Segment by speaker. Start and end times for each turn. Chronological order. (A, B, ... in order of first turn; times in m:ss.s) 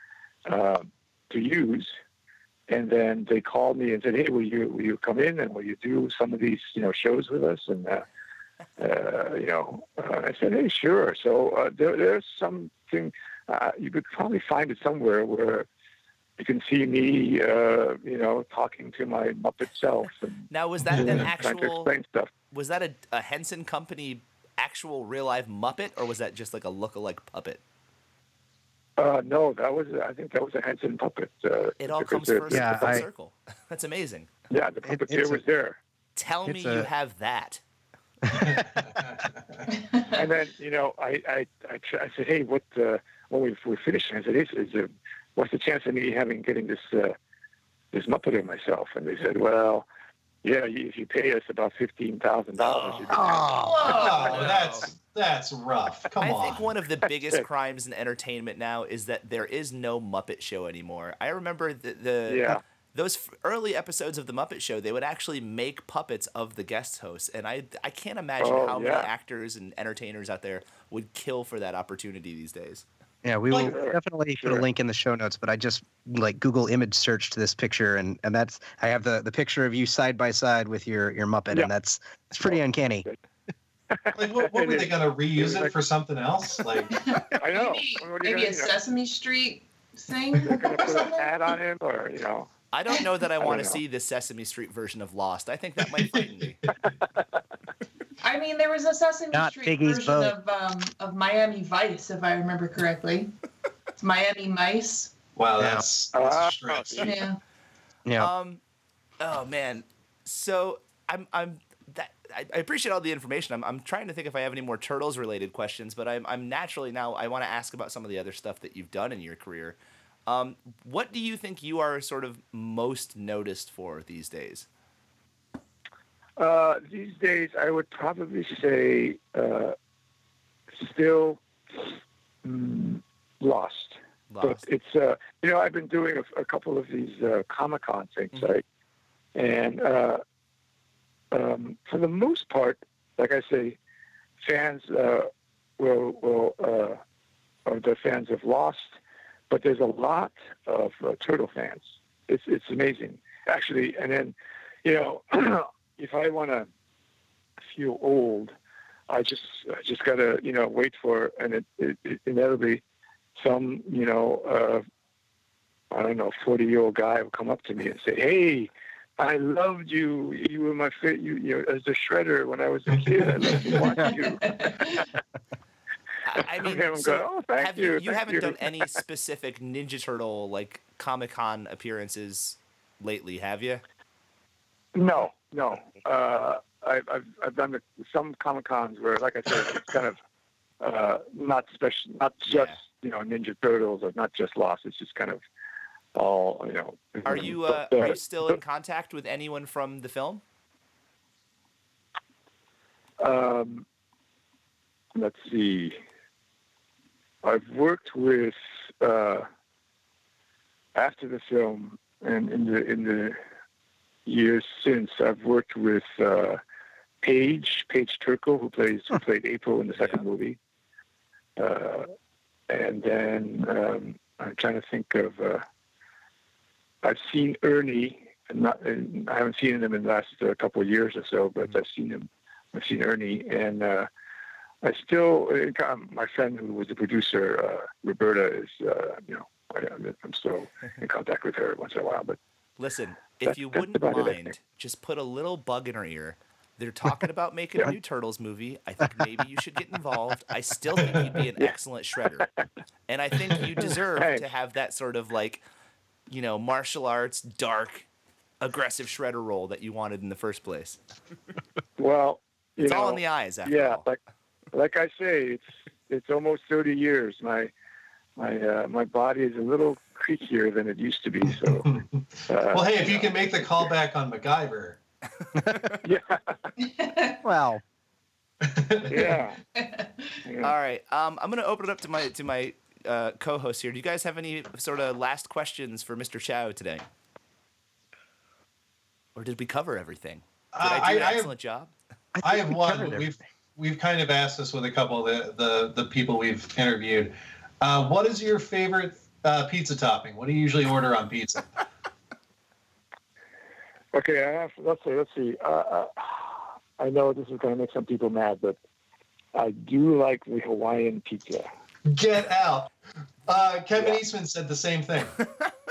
0:00.4-0:02.0 A
0:02.7-0:08.0 A
0:08.8-0:15.7 A
0:16.4-0:22.3 A
0:20.5-0:21.9 B
0:20.9-0:21.2 C
0:22.5-0:27.6 B
0:29.0-0:33.0 A
0:31.8-0:34.3 B
0:32.5-0:33.0 D
0:34.5-0:35.8 A
0:34.8-0:35.4 D
0:36.2-0:37.6 B
0:36.4-0:36.9 D
0:38.2-0:39.0 D
0:38.3-0:39.6 C
0:39.8-0:40.2 E
0:40.1-0:47.2 A
0:47.9-0:49.8 A
0:50.4-0:53.4 A
0:52.6-0:54.9 B
0:53.1-0:54.0 D
0:53.6-0:54.4 E
0:53.8-0:56.7 C
0:56.2-1:12.8 B
1:02.3-1:02.6 A
1:08.4-1:09.1 A
1:13.2-1:23.0 D
1:13.5-1:14.6 A
1:22.4-1:23.2 A
1:23.9-1:25.7 A
1:24.1-1:27.0 C
1:26.9-1:31.3 E
1:27.3-1:28.8 A
1:30.4-1:32.5 A
1:32.7-1:36.7 B
1:33.4-1:33.8 A
1:35.9-1:36.3 C
1:36.8-1:37.4 A
1:38.2-1:43.3 E
1:39.3-1:40.3 D
1:44.0-1:45.1 E
1:45.4-1:47.2 C
1:45.6-1:45.8 D
1:46.1-1:47.2 A
1:47.0-1:47.4 E
1:48.0-1:48.3 D
1:48.2-1:48.6 B
1:49.2-2:04.6 B
2:06.4-2:09.8 A
2:10.7-2:18.6 A
2:14.3-2:14.6 B
2:19.4-2:20.2 A
2:21.3-2:23.8 A
2:24.4-2:27.0 A
2:27.6-2:29.0 A
2:29.5-2:36.7 A
2:37.7-2:38.5 A
2:39.1-2:42.8 A
2:43.4-2:44.8 A
2:45.9-2:54.8 A
2:54.0-2:55.1 E
2:56.2-3:03.8 B
2:56.3-2:59.0 A
3:04.9-3:10.2 A
3:10.8-3:15.4 A
3:12.4-3:12.8 B
3:16.1-3:18.5 A
3:17.2-3:20.4 B
3:23.2-3:23.8 A
3:25.2-3:26.0 A
3:27.4-3:29.5 A
3:30.9-3:33.4 A
3:34.2-3:36.6 A
3:37.2-3:40.6 A
3:41.6-3:42.1 A
3:42.7-3:45.6 A
3:47.0-3:54.1 A
3:54.8-4:02.4 A
4:02.8-4:12.5 B
4:03.4-4:04.5 A
4:13.1-4:15.6 B
4:14.1-4:14.5 A
4:16.3-4:18.1 B
4:18.6-4:21.0 B
4:22.0-4:24.2 A
4:22.8-4:24.0 B
4:24.7-4:27.7 A
4:28.4-4:31.9 A
4:31.7-4:35.0 C
4:32.5-4:33.4 A
4:35.6-4:36.0 B
4:36.0-4:36.7 A
4:36.8-4:37.4 E
4:37.4-4:37.8 D
4:38.6-4:39.4 C
4:39.1-4:39.6 A
4:39.7-4:40.3 E
4:40.4-4:40.7 A
4:40.6-4:47.0 B
4:49.4-4:51.9 B
4:50.7-4:51.5 C
4:52.3-4:53.3 D
4:52.4-5:01.8 C
5:04.1-5:08.8 A
5:09.5-5:11.7 A
5:12.1-5:12.9 C
5:13.4-5:15.4 C